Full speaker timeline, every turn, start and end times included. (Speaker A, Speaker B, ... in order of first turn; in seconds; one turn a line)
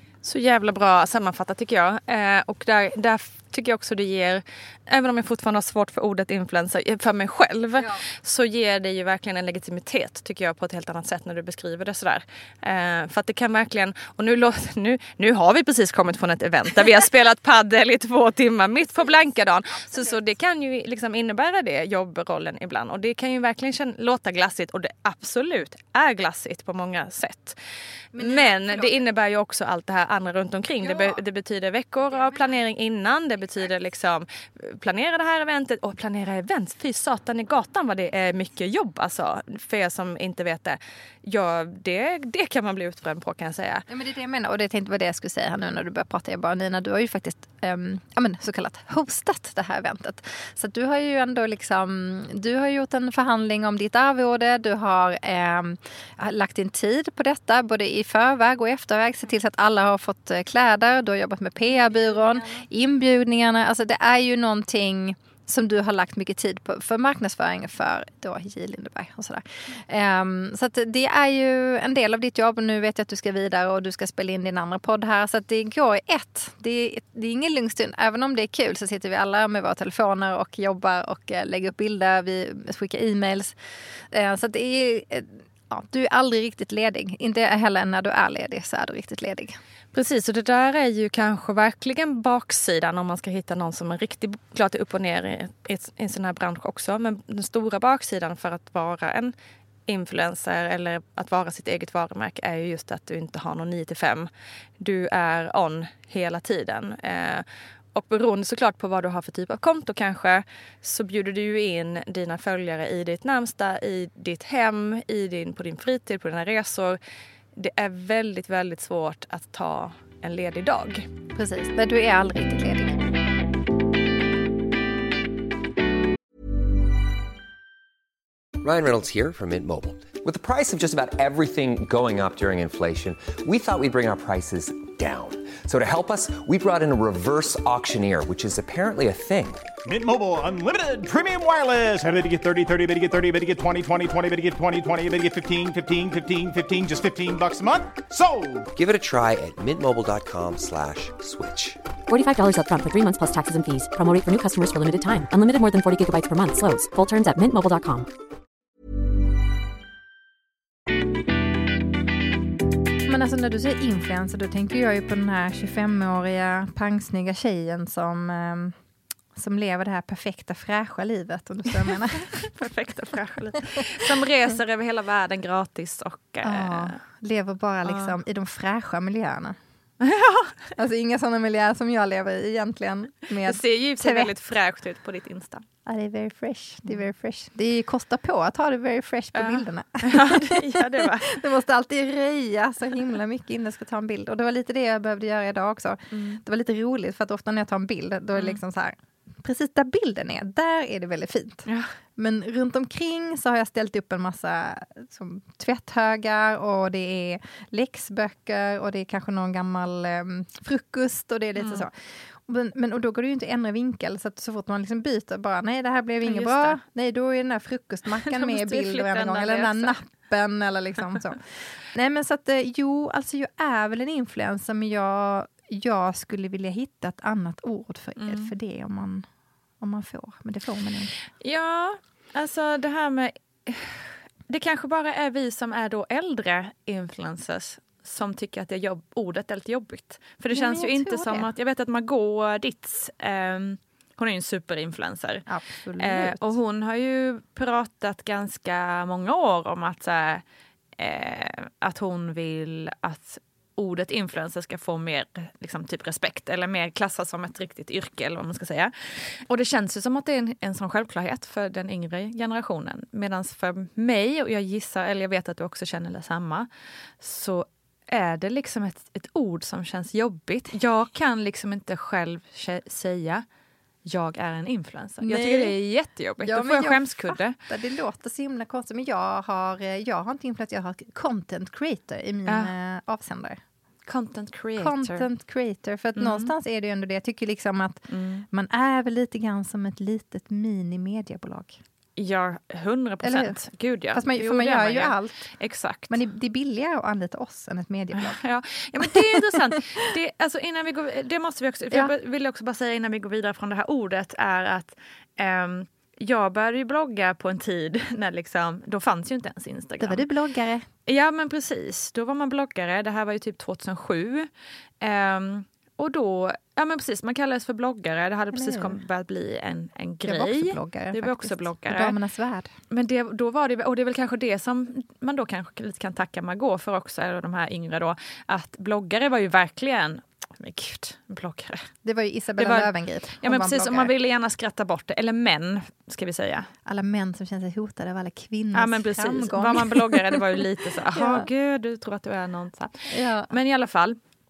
Speaker A: 0.2-27.6
Speaker B: 28.1-29.0
Speaker A: 28.2-43.8
Speaker B: 30.8-31.2
Speaker B: 32.1-32.5
Speaker B: 43.9-83.5
Speaker B: 84.1-89.6
Speaker A: 89.9-99.3
Speaker A: 99.9-117.0
Speaker A: 117.5-121.1
Speaker B: 121.3-123.0
Speaker C: 128.6-139.7
Speaker D: 139.8-148.7
Speaker C: 148.7-151.8
Speaker E: 152.1-158.1
Speaker B: 163.1-168.7
Speaker B: 169.3-172.5
Speaker A: 171.9-176.9
Speaker B: 176.4-179.6
Speaker A: 177.8-178.1
Speaker A: 180.0-180.6
Speaker B: 180.8-184.3
Speaker A: 183.4-185.6
Speaker B: 185.8-221.4
Speaker A: 189.3-191.4
Speaker A: 196.1-196.4
Speaker A: 211.6-211.8
Speaker A: 216.2-216.8
Speaker A: 218.2-219.9
Speaker B: 221.9-229.2
Speaker A: 228.2-228.5
Speaker B: 229.8-231.1
Speaker A: 231.4-245.4
Speaker B: 240.5-241.5
Speaker B: 245.5-246.6
Speaker A: 246.0-250.4
Speaker A: 251.0-266.7
Speaker A: 267.2-273.4
Speaker A: 274.0-277.5
Speaker B: 275.2-275.8
Speaker B: 276.4-283.6
Speaker A: 282.5-282.7
Speaker A: 284.0-285.3
Speaker B: 284.8-291.8
Speaker A: 286.2-286.5
Speaker A: 288.1-288.4
Speaker A: 292.2-296.2
Speaker B: 293.2-293.6
Speaker B: 294.1-295.5
Speaker B: 296.1-298.4
Speaker A: 298.1-310.2
Speaker B: 299.0-300.1
Speaker B: 310.0-310.9
Speaker A: 311.1-314.5
Speaker A: 315.0-322.2
Speaker B: 318.5-319.0
Speaker B: 320.2-322.7
Speaker A: 322.9-331.9
Speaker B: 332.0-334.1
Speaker A: 332.6-336.7
Speaker B: 336.9-340.6
Speaker A: 338.7-344.2
Speaker B: 341.1-341.5
Speaker B: 343.1-343.5